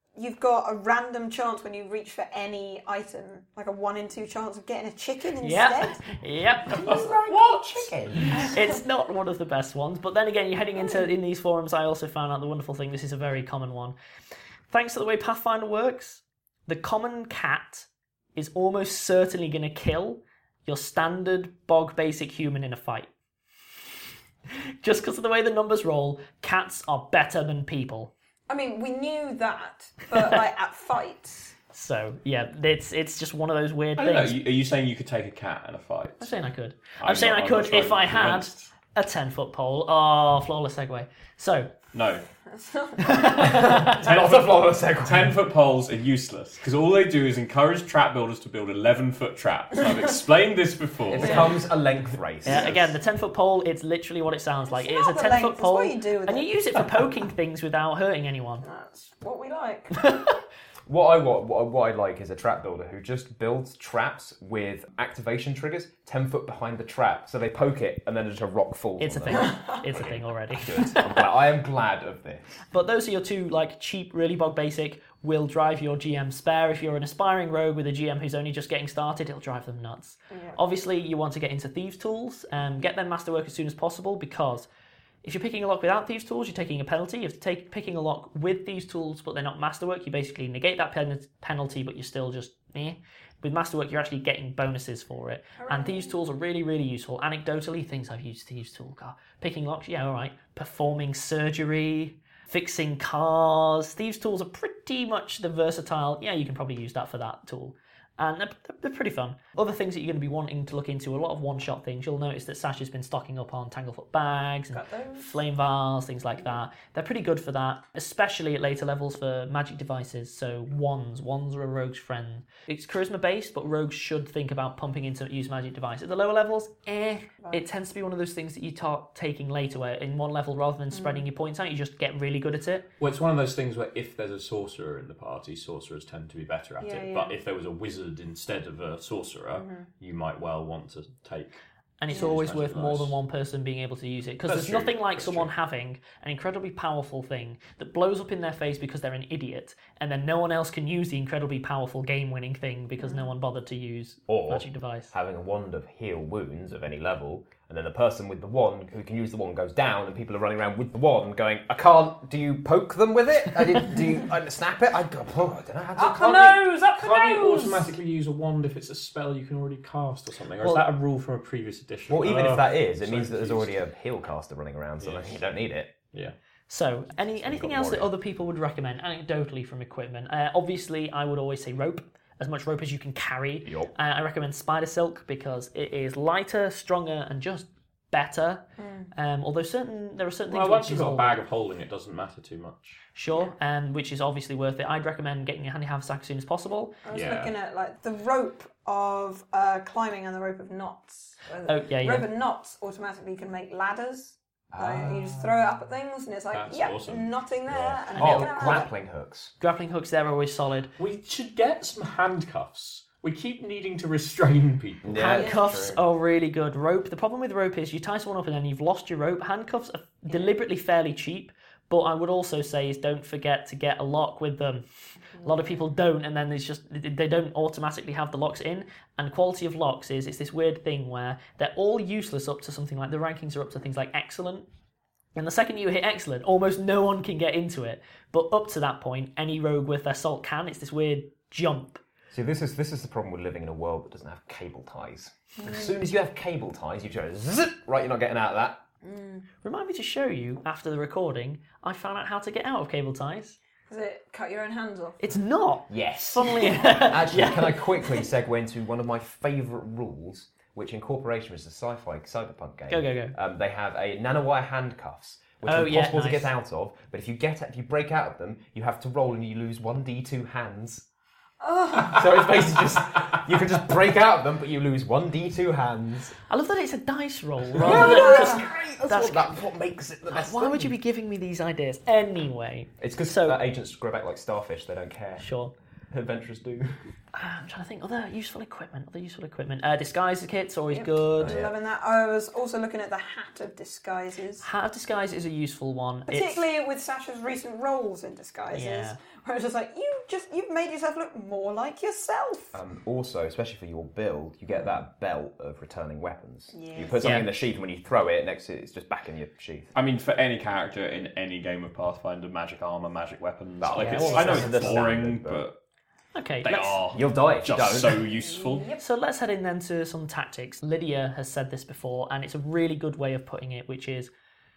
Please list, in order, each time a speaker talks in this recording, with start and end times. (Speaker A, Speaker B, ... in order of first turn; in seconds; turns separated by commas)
Speaker A: 0.1-8.8, Speaker B: 5.4-6.8, Speaker C: 6.7-8.3, Speaker D: 7.7-8.4, Speaker B: 8.3-13.9, Speaker A: 10.8-11.1, Speaker B: 14.7-23.1, Speaker B: 24.8-28.1, Speaker A: 28.5-31.5, Speaker B: 31.7-34.4, Speaker C: 34.0-36.3, Speaker B: 36.2-41.7, Speaker C: 37.0-38.7, Speaker C: 41.9-42.2, Speaker A: 42.5-43.6, Speaker B: 43.1-43.9, Speaker D: 43.4-45.4, Speaker C: 43.9-51.7, Speaker D: 51.1-52.9, Speaker A: 51.2-51.5, Speaker B: 52.4-58.6, Speaker A: 54.7-57.0, Speaker A: 58.6-60.4, Speaker D: 60.9-72.6, Speaker B: 69.0-70.9, Speaker B: 72.7-84.7, Speaker A: 80.3-80.6, Speaker B: 85.2-132.8, Speaker A: 95.6-96.2, Speaker A: 114.7-115.4, Speaker A: 130.9-131.3, Speaker C: 133.0-141.6, Speaker A: 136.8-137.3, Speaker A: 139.5-139.9, Speaker B: 142.0-155.1, Speaker A: 142.1-142.4, Speaker C: 142.1-143.2, Speaker C: 144.4-145.5, Speaker A: 153.0-153.3, Speaker D: 154.3-166.6, Speaker A: 166.0-168.0, Speaker C: 166.2-173.8, Speaker D: 172.1-175.9, Speaker C: 175.0-175.4, Speaker B: 176.7-191.4, Speaker D: 177.3-178.1, Speaker D: 183.6-183.9, Speaker A: 188.8-189.1, Speaker C: 190.5-193.0, Speaker B: 193.1-197.0, Speaker A: 197.0-208.9, Speaker C: 197.1-197.5, Speaker B: 201.7-202.3, Speaker D: 204.7-205.6, Speaker C: 206.5-207.3, Speaker D: 207.7-209.5, Speaker B: 208.2-208.9, Speaker B: 209.6-210.9, Speaker C: 211.0-215.1, Speaker D: 215.0-216.0, Speaker B: 215.1-224.8, Speaker A: 215.3-215.6, Speaker A: 225.4-225.8, Speaker B: 225.4-234.7, Speaker B: 235.3-242.0, Speaker D: 242.3-248.8, Speaker A: 245.6-246.0, Speaker A: 249.0-249.4, Speaker B: 249.6-253.6, Speaker A: 253.9-255.2, Speaker B: 255.2-257.6, Speaker D: 255.9-271.1, Speaker A: 256.6-257.6, Speaker B: 262.9-263.4, Speaker B: 265.6-266.5, Speaker A: 271.6-272.7, Speaker D: 272.0-276.4, Speaker B: 276.5-279.6, Speaker D: 277.7-281.0, Speaker A: 277.8-278.7, Speaker B: 280.3-283.6, Speaker D: 283.0-285.5, Speaker B: 285.4-285.7, Speaker D: 286.1-287.0, Speaker B: 287.3-291.6, Speaker A: 290.9-294.6, Speaker D: 291.4-291.7, Speaker B: 294.6-296.6, Speaker A: 296.3-302.8, Speaker B: 298.7-299.2, Speaker D: 302.7-309.9, Speaker A: 304.7-305.0, Speaker A: 306.7-307.4, Speaker B: 307.2-307.5, Speaker C: 309.9-315.8, Speaker D: 313.8-315.6, Speaker B: 313.9-314.5, Speaker A: 314.2-315.0, Speaker B: 316.3-317.0, Speaker C: 316.6-318.9, Speaker D: 317.1-318.2, Speaker A: 318.3-319.0, Speaker B: 319.0-324.3